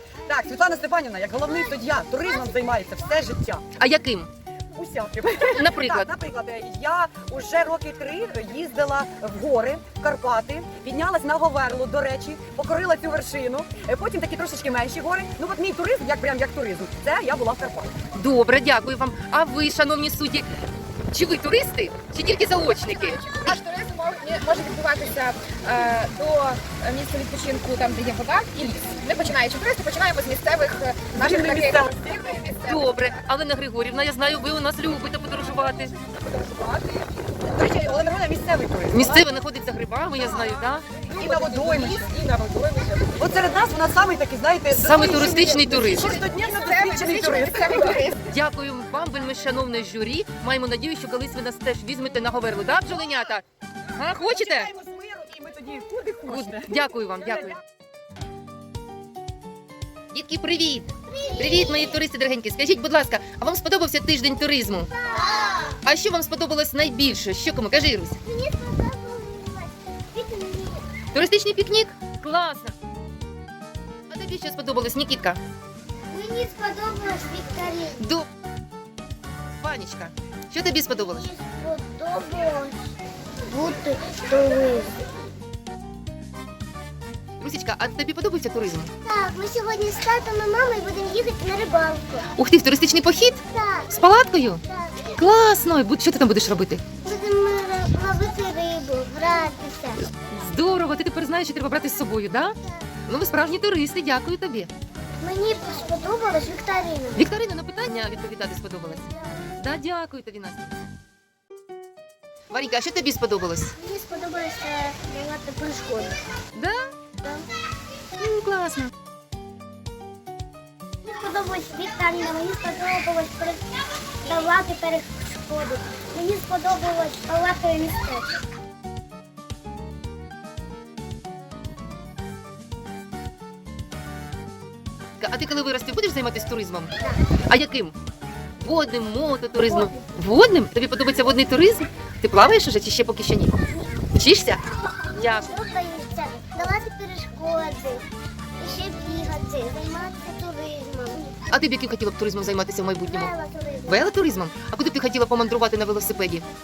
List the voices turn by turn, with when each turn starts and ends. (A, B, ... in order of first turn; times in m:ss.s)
0:00.3-0:03.6 A
0:03.8-0:04.3 B
0:04.7-0:18.0 A
0:05.5-0:06.1 B
0:18.1-0:20.5 B
0:21.1-0:23.5 B
0:22.8-0:33.1 C
0:31.1-0:32.2 A
0:32.7-0:35.9 B
0:35.6-0:37.1 C
0:37.4-0:39.2 A
0:38.9-0:40.9 B
0:41.0-0:43.4 C
0:41.1-0:42.0 A
0:43.2-0:48.0 A
0:44.7-0:46.0 B
0:45.7-0:48.3 C
0:48.3-0:53.4 B
0:54.0-0:54.7 B
0:54.2-0:56.8 A
0:56.3-0:57.6 B
1:00.1-1:04.9 B
1:01.1-1:02.0 D
1:05.1-1:05.8 D
1:05.8-1:08.2 B
1:08.2-1:10.9 D
1:11.1-1:12.8 B
1:14.1-1:15.4 B
1:16.1-1:18.0 D
1:18.0-1:18.3 B
1:19.6-1:21.3 B
1:21.0-1:22.9 D
1:23.4-1:25.0 D
1:27.4-1:28.9 B
1:29.0-1:32.3 D
1:32.3-1:34.6 B
1:33.5-1:33.9 D
1:34.6-1:35.2 D
1:35.2-1:36.8 B
1:37.0-1:40.0 D
1:40.3-1:42.6 B
1:43.0-1:44.7 B
1:45.2-1:47.3 D
1:47.2-1:50.8 B
1:52.5-1:53.7 B
1:53.8-1:56.2 D
1:56.6-1:56.9 B
1:58.2-1:58.9 B
2:01.0-2:03.6 D
2:04.2-2:08.4 D
2:15.2-2:17.9 B
2:18.6-2:24.6 B
2:25.1-2:28.0 D
2:25.2-2:25.5 B
2:28.6-2:31.4 D
2:31.5-2:33.3 B
2:33.0-2:34.1 D
2:33.9-2:36.5 B